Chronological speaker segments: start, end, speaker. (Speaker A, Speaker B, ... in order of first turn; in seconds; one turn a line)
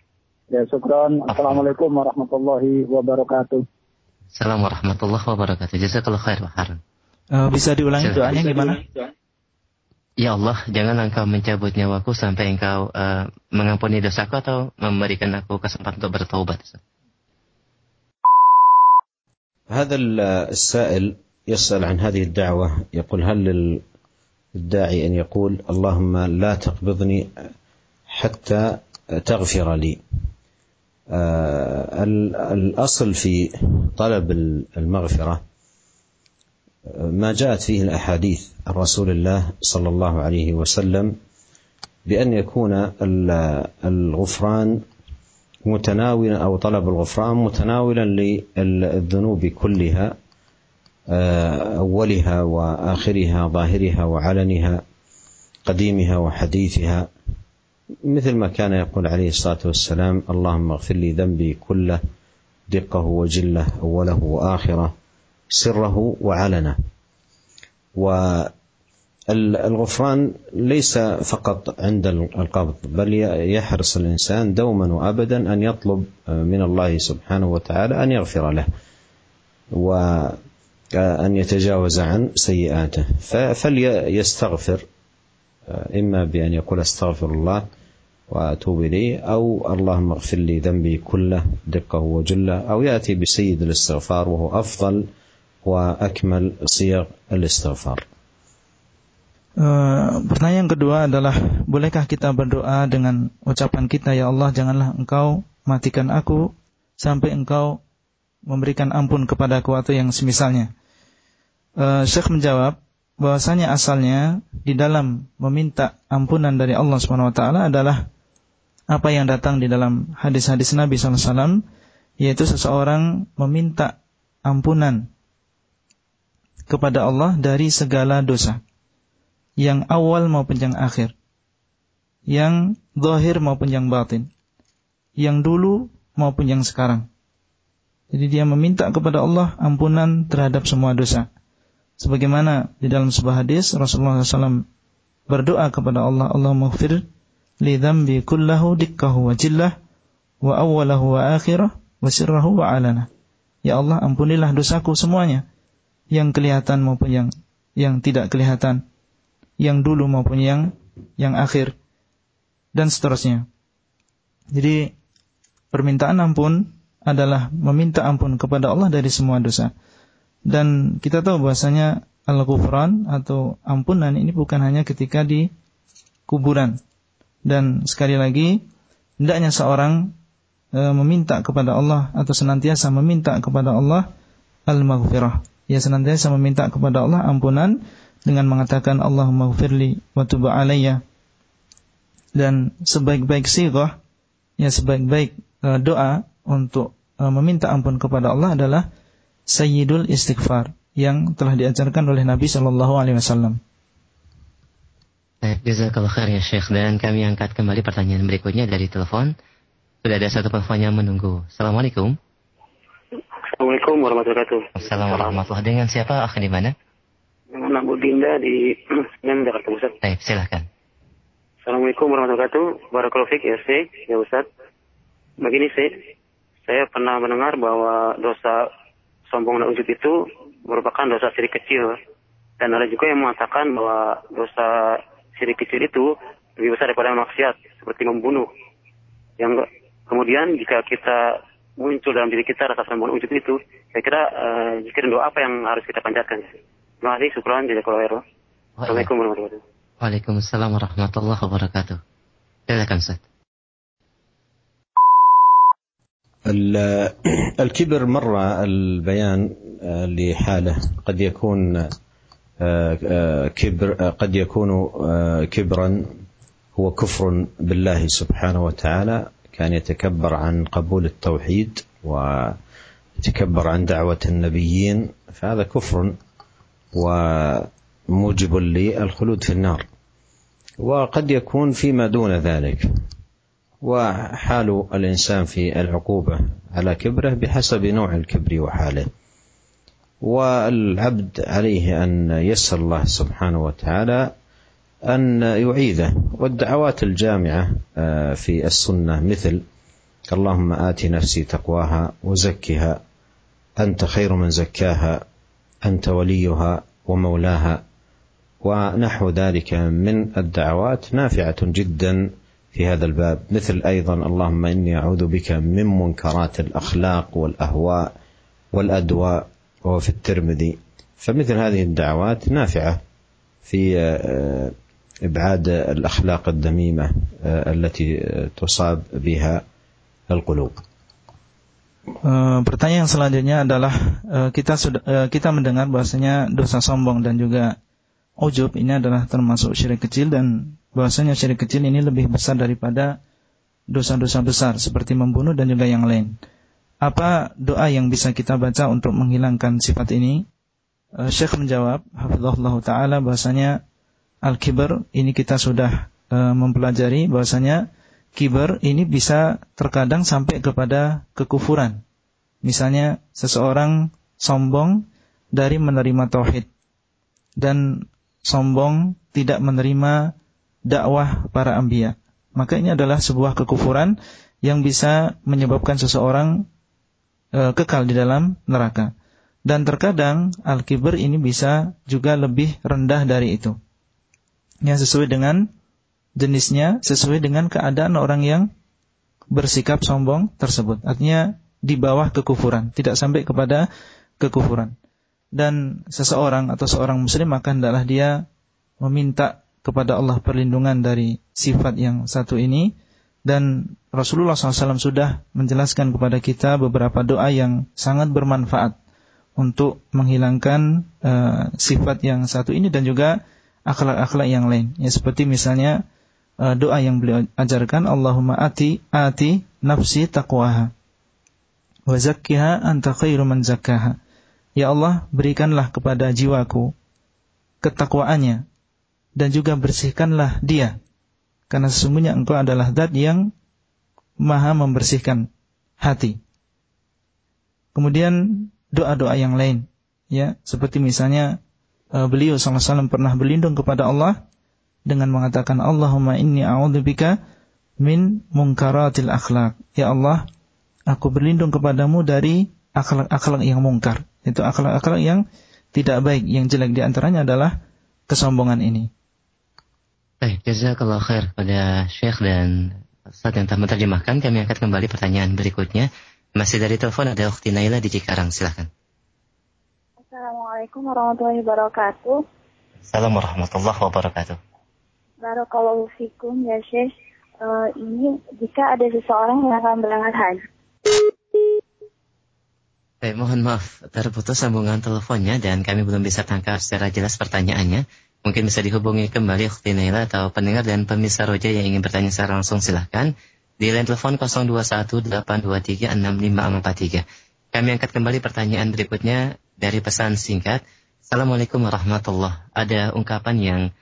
Speaker A: 0.5-3.6
Speaker B: 4.4-6.8
Speaker C: 7.3-8.8
Speaker B: 8.0-8.3
Speaker B: 10.2-16.8
Speaker D: 19.7-23.8
Speaker D: 24.6-27.3
Speaker D: 28.1-30.0
Speaker D: 31.1-35.4
Speaker D: 36.9-41.1
Speaker D: 42.1-44.8
Speaker D: 45.7-50.1
Speaker D: 51.1-54.8
Speaker D: 55.7-57.1
Speaker D: 58.1-62.0
Speaker D: 62.7-64.9
Speaker D: 65.5-66.8
Speaker D: 68.0-68.5
Speaker D: 69.3-78.7
Speaker D: 79.8-80.4
Speaker D: 81.0-84.8
Speaker D: 85.7-87.7
Speaker D: 88.3-95.1
Speaker D: 95.7-98.0
Speaker C: 99.6-107.8
Speaker C: 108.5-110.7
Speaker C: 111.8-118.1
Speaker C: 118.9-121.6
Speaker C: 122.2-125.1
Speaker C: 126.7-128.6
Speaker C: 129.6-131.1
Speaker C: 132.3-134.3
Speaker C: 135.2-137.1
Speaker C: 138.1-141.3
Speaker C: 142.0-144.7
Speaker C: 145.3-147.1
Speaker C: 147.6-149.8
Speaker C: 150.4-153.1
Speaker C: 153.6-155.4
Speaker C: 156.1-158.8
Speaker C: 159.6-161.8
Speaker C: 162.7-163.5
Speaker C: 164.5-164.9
Speaker C: 165.7-169.7
Speaker C: 170.5-175.5
Speaker C: 176.3-176.8
Speaker C: 177.5-178.6
Speaker C: 179.2-180.1
Speaker C: 180.7-184.1
Speaker C: 184.7-191.0
Speaker C: 192.3-194.0
Speaker C: 194.6-198.9
Speaker C: 199.5-203.6
Speaker B: 205.4-209.3
Speaker B: 210.0-212.2
Speaker E: 213.5-215.4
Speaker B: 214.8-216.7
Speaker E: 217.5-220.0
Speaker B: 220.0-220.7
Speaker E: 221.7-224.5
Speaker E: 225.4-226.0
Speaker E: 226.7-228.7
Speaker E: 229.3-232.0
Speaker E: 232.6-238.5
Speaker E: 239.4-248.2
Speaker B: 248.8-249.1
Speaker E: 248.9-249.6
Speaker B: 250.0-252.0
Speaker B: 252.7-253.2
Speaker D: 256.5-261.9
Speaker D: 262.6-266.1
Speaker D: 266.8-272.6
Speaker D: 273.2-276.2
Speaker D: 277.0-279.9
Speaker D: 280.8-282.9
Speaker D: 283.8-289.1
Speaker D: 290.2-294.3
Speaker D: 295.1-299.6
Speaker D: 300.3-303.0
Speaker D: 303.8-305.2
Speaker D: 305.9-307.8
Speaker D: 308.6-318.1
Speaker D: 318.7-323.0
Speaker D: 323.7-324.7
Speaker D: 325.3-329.6
Speaker D: 330.3-330.8
Speaker C: 332.2-337.8
Speaker C: 338.4-343.2
Speaker C: 343.9-346.4
Speaker C: 347.0-350.4
Speaker C: 351.2-353.8
Speaker C: 354.4-362.0
Speaker C: 362.6-366.7
Speaker C: 367.6-370.3
Speaker C: 370.9-376.7
Speaker C: 377.6-379.1
Speaker C: 379.7-383.8
Speaker C: 384.8-385.7
Speaker C: 386.4-388.7
Speaker C: 389.5-393.9
Speaker C: 394.4-394.9
Speaker C: 395.6-398.4
Speaker C: 399.0-402.9
Speaker C: 403.5-409.0
Speaker C: 409.6-416.0
Speaker C: 416.6-420.9
Speaker C: 422.1-424.2
Speaker C: 424.8-426.9
Speaker C: 427.8-428.6
Speaker C: 429.4-431.0
Speaker C: 431.7-433.5
Speaker C: 434.4-435.5
Speaker C: 436.0-436.4
Speaker C: 437.9-441.6
Speaker C: 442.1-444.4
Speaker C: 445.1-447.4
Speaker C: 448.0-450.5
Speaker C: 451.1-455.4
Speaker C: 455.9-457.8
Speaker C: 458.3-459.1
Speaker B: 460.4-468.9
Speaker F: 470.3-472.4
Speaker B: 473.1-474.6
Speaker F: 475.4-480.6
Speaker B: 483.2-503.9